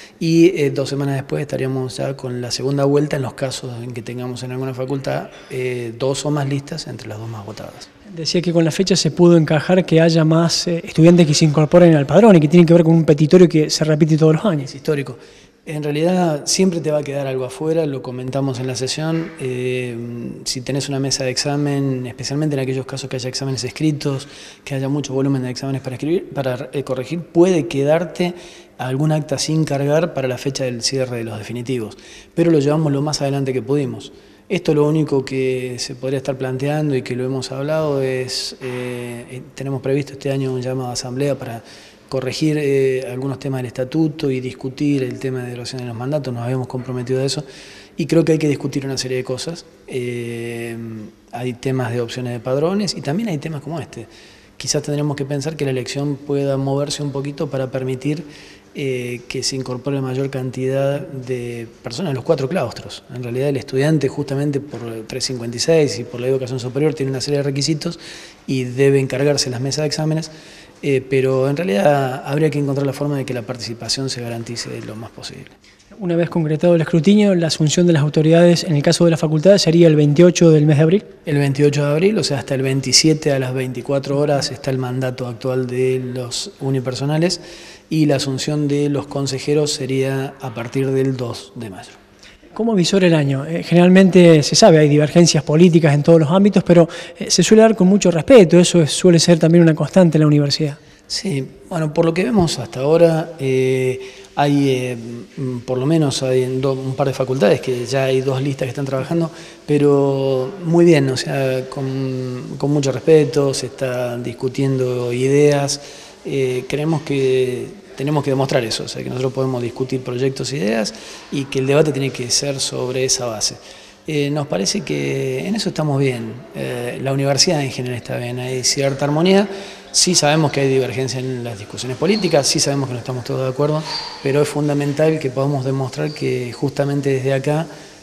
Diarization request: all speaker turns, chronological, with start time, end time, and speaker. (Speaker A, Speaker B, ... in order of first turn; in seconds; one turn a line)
Speaker A: 0.2-7.9
Speaker B: 8.1-14.7
Speaker A: 14.6-47.4
Speaker A: 48.0-70.3
Speaker A: 70.8-75.5
Speaker B: 76.0-81.1
Speaker A: 81.2-92.0
Speaker B: 92.5-100.8
Speaker A: 101.1-137.7